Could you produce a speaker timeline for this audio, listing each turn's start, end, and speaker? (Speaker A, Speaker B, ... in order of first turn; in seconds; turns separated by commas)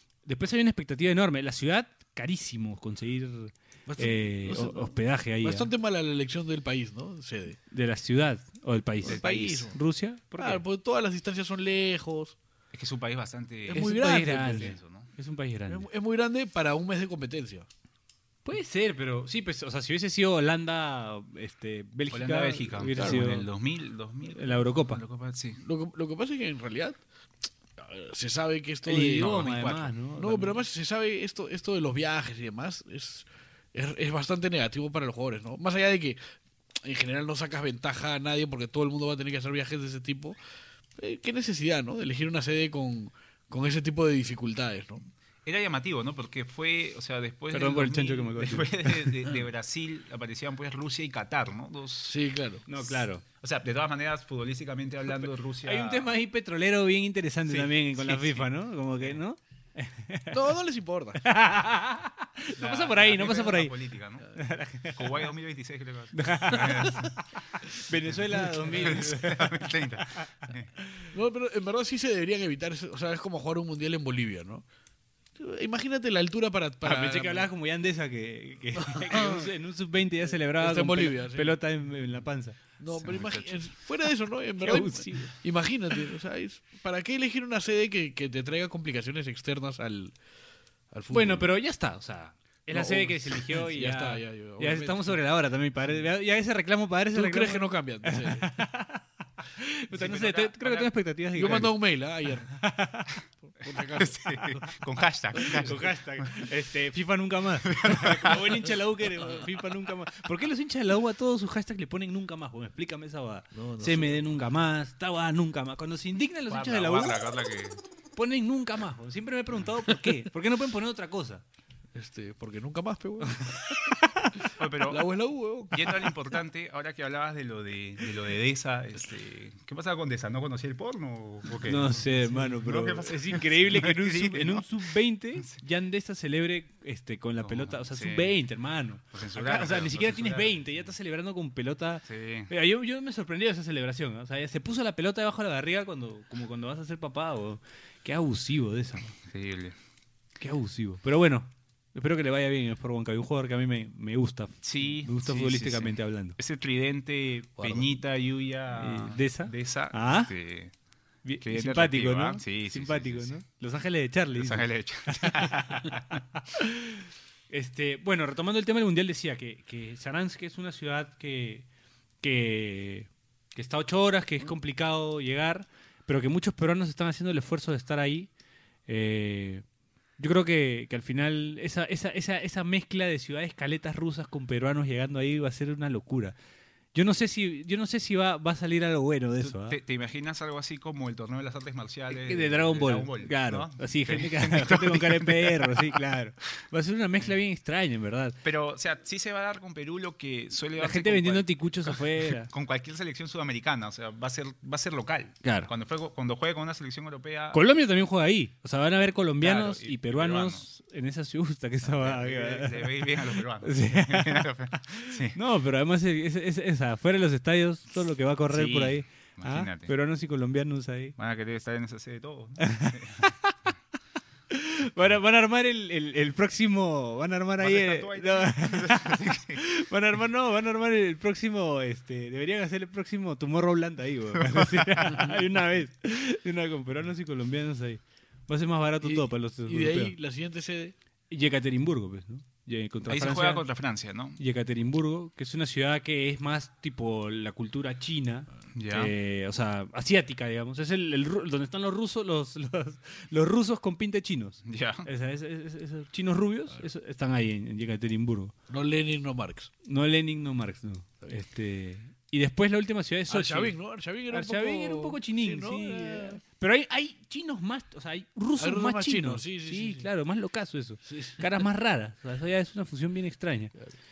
Speaker A: 0.2-5.7, Speaker B: 3.9-7.6, Speaker A: 7.7-10.6, Speaker B: 9.0-9.8, Speaker C: 9.1-9.7, Speaker B: 10.4-12.3, Speaker C: 12.7-15.1, Speaker B: 13.7-14.8, Speaker A: 13.7-15.9, Speaker B: 15.7-17.7, Speaker A: 18.4-23.5, Speaker C: 22.1-25.6, Speaker B: 22.9-23.3, Speaker A: 24.3-25.0, Speaker B: 25.6-27.0, Speaker B: 27.8-36.2, Speaker A: 28.9-30.6, Speaker C: 29.2-29.9, Speaker B: 36.8-40.4, Speaker B: 41.0-45.0, Speaker C: 45.5-52.2, Speaker A: 47.5-49.1, Speaker B: 52.1-52.6, Speaker A: 52.7-53.2, Speaker C: 53.4-56.1, Speaker A: 55.2-60.4, Speaker B: 60.3-61.2, Speaker A: 61.2-63.7, Speaker C: 62.6-64.3, Speaker A: 64.3-65.1, Speaker C: 64.9-67.2, Speaker A: 66.1-70.2, Speaker B: 68.4-69.1, Speaker C: 68.8-70.7, Speaker B: 71.1-74.6, Speaker B: 75.4-77.5, Speaker A: 76.8-82.6, Speaker B: 78.8-79.5, Speaker B: 80.5-81.6, Speaker B: 82.8-90.2, Speaker C: 82.9-83.7, Speaker A: 84.6-85.4, Speaker B: 90.9-91.5, Speaker A: 91.1-101.8, Speaker B: 92.7-95.2, Speaker B: 97.2-98.5, Speaker B: 100.0-102.6, Speaker A: 102.5-103.2, Speaker B: 103.5-104.6, Speaker C: 104.0-105.9, Speaker B: 105.4-105.9, Speaker A: 105.6-117.2, Speaker C: 107.7-108.4, Speaker B: 113.5-114.2, Speaker C: 116.5-117.8, Speaker A: 118.2-121.4, Speaker B: 121.9-123.5, Speaker A: 123.5-124.3, Speaker C: 124.6-125.1, Speaker B: 124.9-126.1, Speaker C: 125.7-132.0, Speaker A: 131.7-149.2, Speaker C: 132.6-134.7, Speaker C: 135.4-135.6, Speaker C: 137.4-138.3, Speaker C: 139.1-140.7, Speaker C: 142.1-142.5, Speaker C: 149.3-149.8, Speaker A: 150.4-156.4, Speaker C: 154.6-160.7, Speaker B: 157.6-157.9, Speaker A: 158.8-160.3, Speaker A: 161.2-171.7, Speaker C: 161.4-163.4, Speaker C: 164.3-166.2, Speaker A: 172.2-178.3, Speaker A: 178.9-179.6, Speaker A: 180.2-186.3, Speaker A: 186.9-189.8, Speaker C: 189.4-196.0, Speaker A: 192.1-198.4, Speaker C: 198.4-207.6, Speaker A: 200.8-202.5, Speaker A: 205.4-205.7, Speaker A: 207.5-213.0, Speaker C: 209.4-210.7, Speaker C: 211.8-215.4, Speaker A: 213.6-214.4, Speaker A: 215.3-221.2, Speaker C: 218.5-219.9, Speaker C: 221.2-223.3, Speaker A: 222.6-223.6, Speaker A: 224.5-240.2, Speaker C: 227.6-229.6, Speaker C: 234.4-235.1, Speaker B: 239.0-240.9, Speaker A: 241.3-243.6, Speaker C: 243.1-244.4, Speaker A: 244.4-258.5, Speaker C: 248.7-249.1, Speaker C: 254.7-255.1, Speaker B: 258.7-259.7, Speaker A: 259.9-263.8, Speaker B: 263.3-266.4, Speaker A: 264.3-273.7, Speaker B: 268.6-270.1, Speaker B: 271.1-271.5